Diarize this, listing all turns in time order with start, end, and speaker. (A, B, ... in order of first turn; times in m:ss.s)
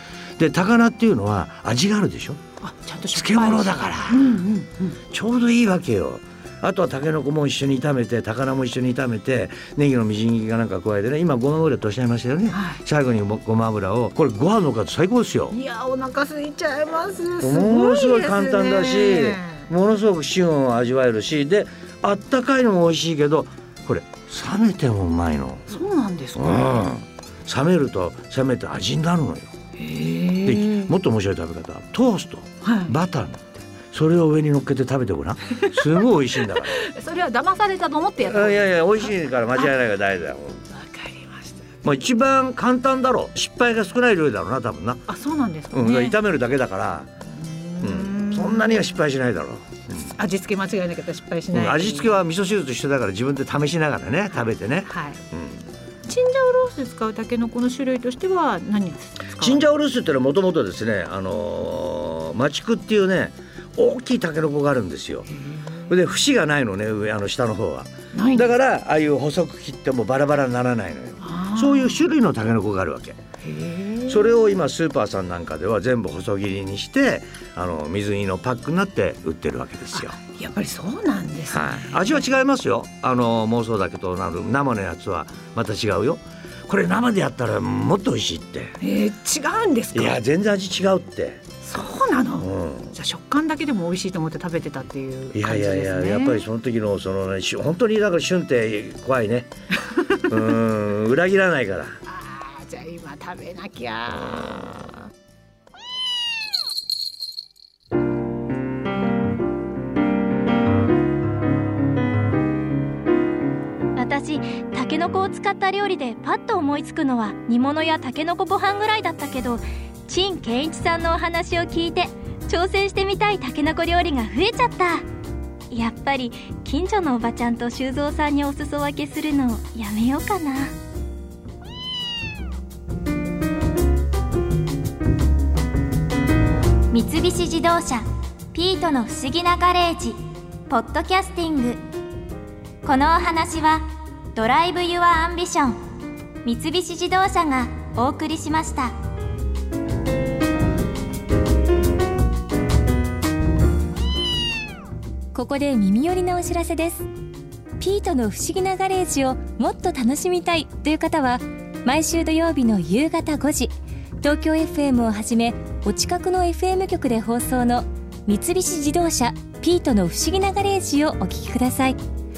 0:00.4-0:02.4 A
0:02.6-0:05.0 B
0:03.1-0:04.2 A
0:05.1-0:15.6 A
0:15.5-0:19.6 B
0:17.4-0:25.8 A
0:25.7-0:26.9 B
0:26.4-0:29.5 A
0:29.8-0:30.9 B
0:30.4-0:36.8 A
0:32.6-0:32.9 B
0:36.5-0:38.8 B
0:38.2-0:40.6 A
0:40.8-0:41.6 B
0:41.8-0:45.0 A
0:45.1-0:46.2 B
0:45.7-0:47.1 A
0:47.3-0:48.8 B
0:47.8-0:50.1 A
0:50.0-0:52.1 B
0:51.5-0:55.7 A
0:54.9-0:55.2 B
0:56.0-0:59.7 B
0:59.4-1:05.3 A
1:05.9-1:13.2 A
1:08.1-1:08.5 B
1:11.2-1:12.0 B
1:13.4-1:14.2 B
1:14.1-1:20.2 A
1:19.9-1:22.2 B
1:21.5-1:28.8 A
1:28.8-1:30.1 B
1:29.9-1:31.4 A
1:31.6-1:36.4 B
1:32.4-1:33.0 A
1:35.3-1:39.5 A
1:40.2-1:42.0 A
1:42.1-1:45.0 B
1:54.0-2:05.0 C
2:05.7-2:10.7 C
2:16.9-2:21.8 C
2:22.8-2:25.8 C
2:26.4-2:28.9 C
2:35.3-2:37.1 D
2:37.8-2:52.0 D